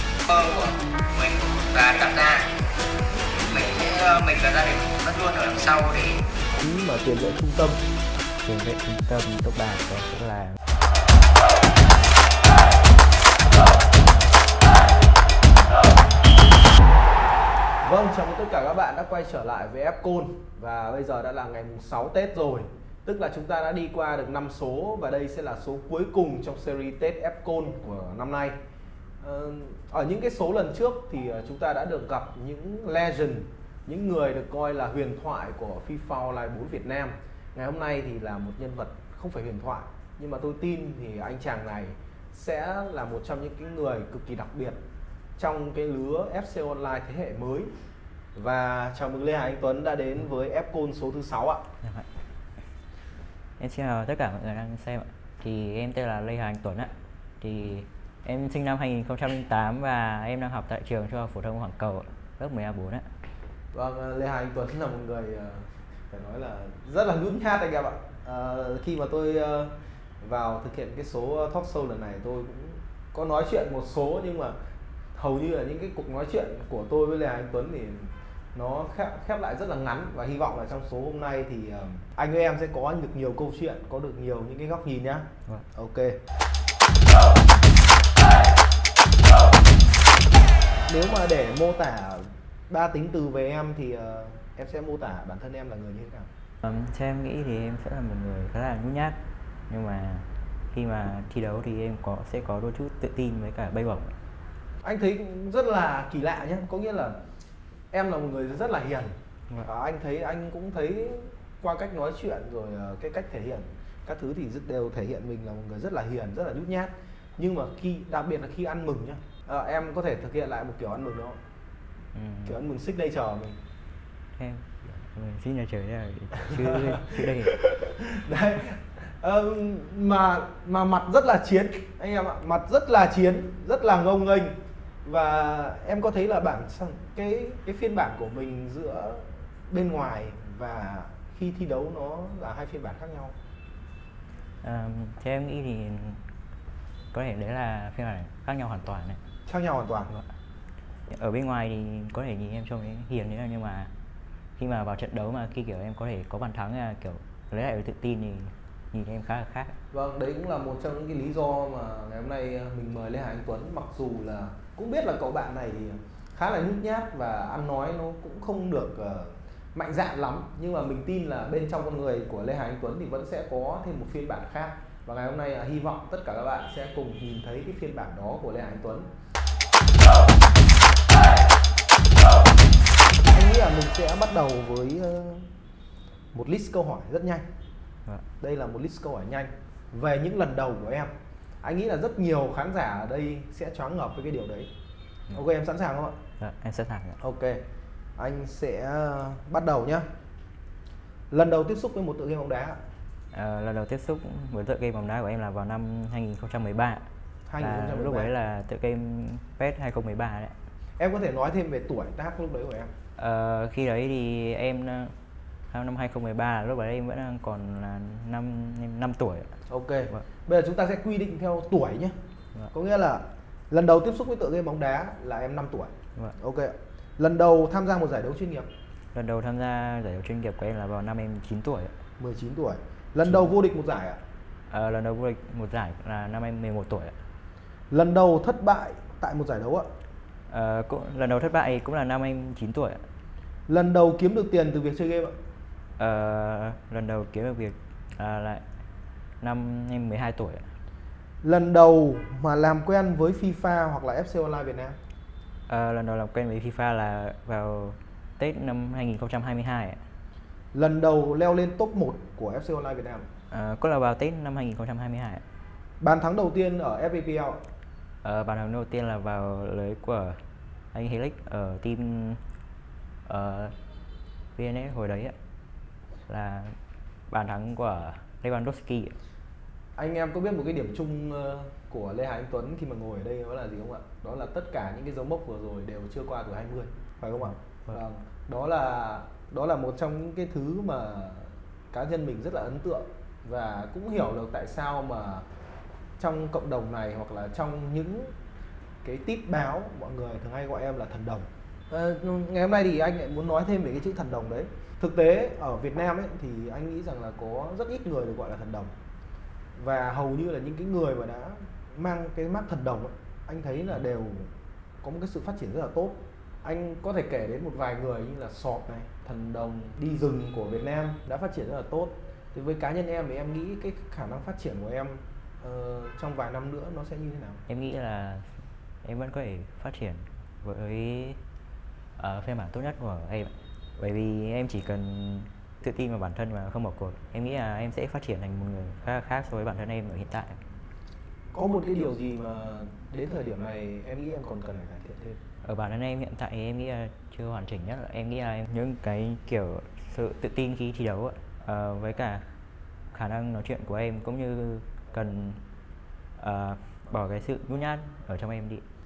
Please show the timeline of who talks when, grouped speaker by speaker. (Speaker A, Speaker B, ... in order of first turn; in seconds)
Speaker A: 0.2-2.5, 3.5-6.2
Speaker B: 6.5-7.8, 17.8-28.6, 29.2-44.8, 45.4-47.7, 48.3-51.6, 63.7-74.6, 75.1-86.2, 90.8-96.3, 104.8-107.2, 107.9-109.1, 109.6-121.4, 122.5-123.6, 126.4-143.3, 149.4-150.1, 159.9-179.1, 183.2-185.5, 186.3-187.4, 188.4-191.1, 191.6-194.7, 195.3-196.2, 197.2-197.6, 198.2-200.1, 201.3-202.8, 207.5-208.3, 211.0-212.9, 219.7-222.1, 222.7-228.7, 232.2-234.2, 237.9-239.9, 243.7-245.3, 251.4-255.0, 260.7-263.3, 266.0-267.6, 279.9-295.4, 296.2-298.3, 299.0-308.9, 309.7-327.6, 341.5-345.4
Speaker C: 8.4-10.6, 51.8-52.1, 53.6-63.1, 96.6-104.1, 122.1-122.6, 124.3-127.6, 144.6-146.2, 147.1-149.2, 151.1-153.9, 154.6-159.8, 196.4-197.2, 203.3-207.1, 207.6-210.5, 213.2-215.1, 215.7-219.5, 229.1-231.9, 233.2-233.5, 234.7-237.2, 240.5-243.0, 246.0-248.6, 249.4-250.7, 255.7-260.0, 263.5-265.4, 268.2-270.4, 270.9-272.4, 273.2-273.7, 274.6-275.4, 276.3-276.7, 277.3-279.1, 287.4-288.0, 327.7-328.5, 329.0-331.4, 332.2-340.6, 345.6-352.4, 353.1-355.6, 356.4-358.8